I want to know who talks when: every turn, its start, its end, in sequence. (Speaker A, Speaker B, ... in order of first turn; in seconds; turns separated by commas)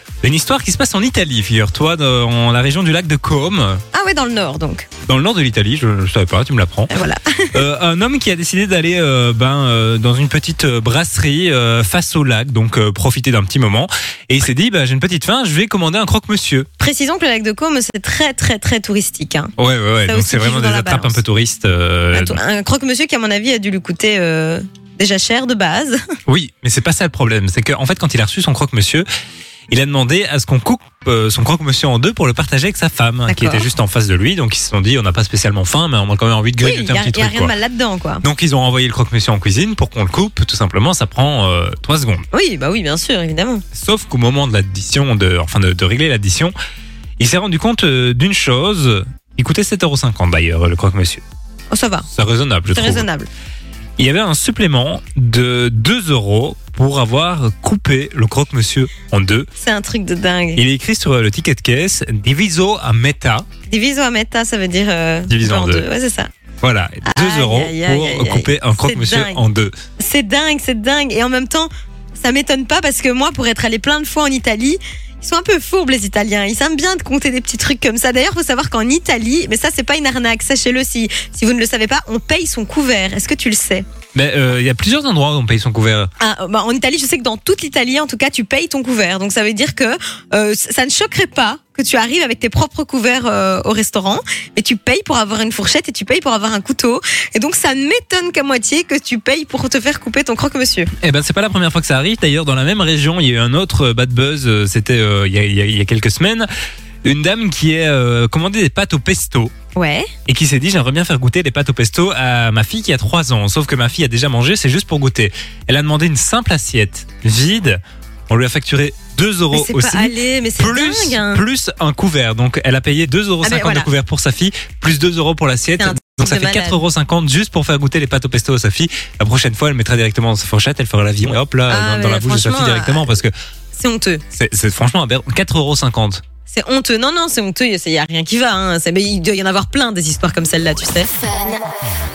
Speaker A: 0.2-3.8, Speaker B: 3.9-4.9, Speaker A: 5.0-6.9, Speaker B: 6.9-7.6, Speaker A: 7.5-16.7, Speaker B: 16.8-19.5, Speaker A: 19.6-22.4, Speaker B: 20.0-21.2, Speaker B: 22.1-26.0, Speaker A: 26.3-29.1, Speaker A: 29.7-37.5, Speaker B: 33.3-33.6, Speaker B: 36.6-38.2, Speaker A: 38.2-42.2, Speaker B: 42.3-43.6, Speaker A: 43.7-46.5, Speaker A: 47.2-51.2, Speaker B: 51.7-52.1, Speaker A: 52.1-53.0, Speaker B: 52.7-53.3, Speaker A: 54.0-59.5, Speaker B: 59.6-60.6, Speaker A: 60.6-63.5, Speaker B: 63.7-66.3, Speaker A: 65.3-65.8, Speaker A: 66.6-69.7, Speaker B: 67.0-69.4, Speaker B: 70.0-83.8, Speaker A: 84.1-86.1, Speaker B: 86.2-100.9, Speaker A: 101.0-106.5, Speaker A: 107.0-109.5, Speaker B: 109.7-110.1, Speaker A: 110.3-133.3, Speaker B: 119.5-121.4, Speaker B: 123.4-123.9, Speaker B: 125.8-126.8, Speaker B: 131.7-133.2, Speaker B: 133.7-134.2, Speaker A: 134.3-136.2, Speaker B: 136.5-141.5